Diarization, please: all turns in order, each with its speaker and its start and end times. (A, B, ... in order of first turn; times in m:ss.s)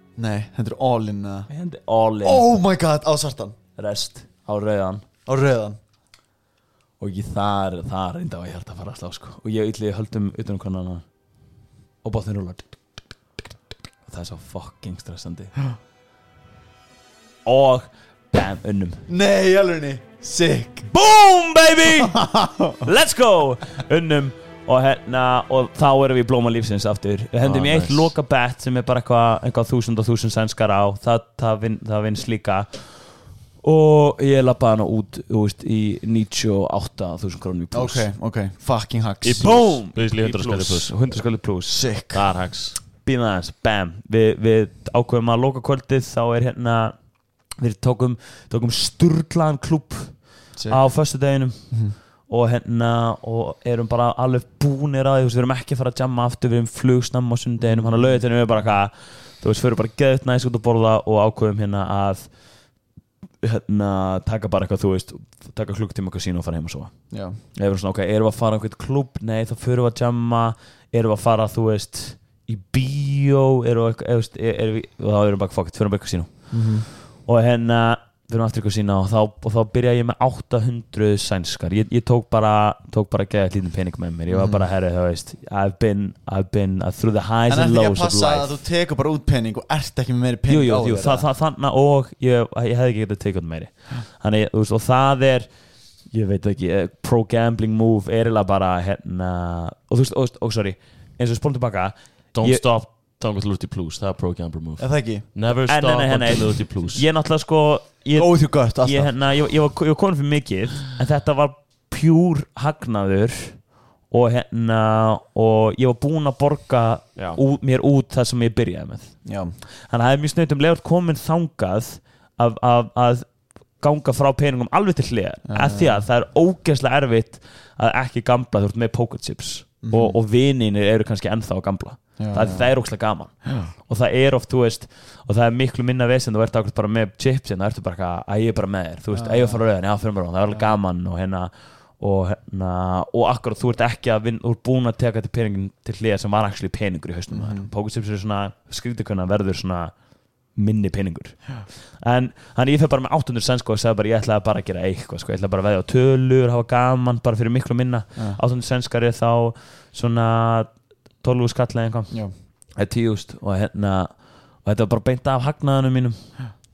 0:00.2-0:01.5 A
0:01.5-0:02.5 B
0:02.2-0:03.6 A
0:03.8-0:05.0 B
0:05.3-0:05.8 A
0:07.0-0:11.0 B
0:12.0-0:12.8 B
0:14.0-0:15.6 B
0:17.4-0:19.0 B
0:19.1-0:20.9 A
0:20.9-0:38.1 B
0:22.0-0:22.8 A
0:27.4-0:28.1 C
0:37.7-0:39.6 A
0:39.2-0:40.9 C
0:39.4-0:41.8 B
0:41.7-0:42.3 A
0:42.1-0:42.8 C
0:43.0-1:02.3 B
0:50.6-0:50.8 A
0:51.7-0:52.0 A
0:57.6-0:58.7 A
1:03.4-1:28.6 B
1:07.1-1:07.4 A
1:16.5-1:16.9 A
1:24.3-1:24.7 A
1:27.5-1:31.3 A
1:30.5-1:42.6 B
1:42.3-1:47.0 C
1:44.8-1:45.2 A
1:45.7-1:59.2 B
1:48.2-1:49.2 A
1:59.2-1:59.6 A
1:59.9-2:30.0 B
2:05.5-2:06.1 A
2:09.8-2:10.2 A
2:12.2-2:12.7 A
2:13.4-2:13.7 A
2:19.1-2:19.6 A
2:27.3-2:27.7 A
2:30.5-2:42.2 B
2:42.8-2:46.4 B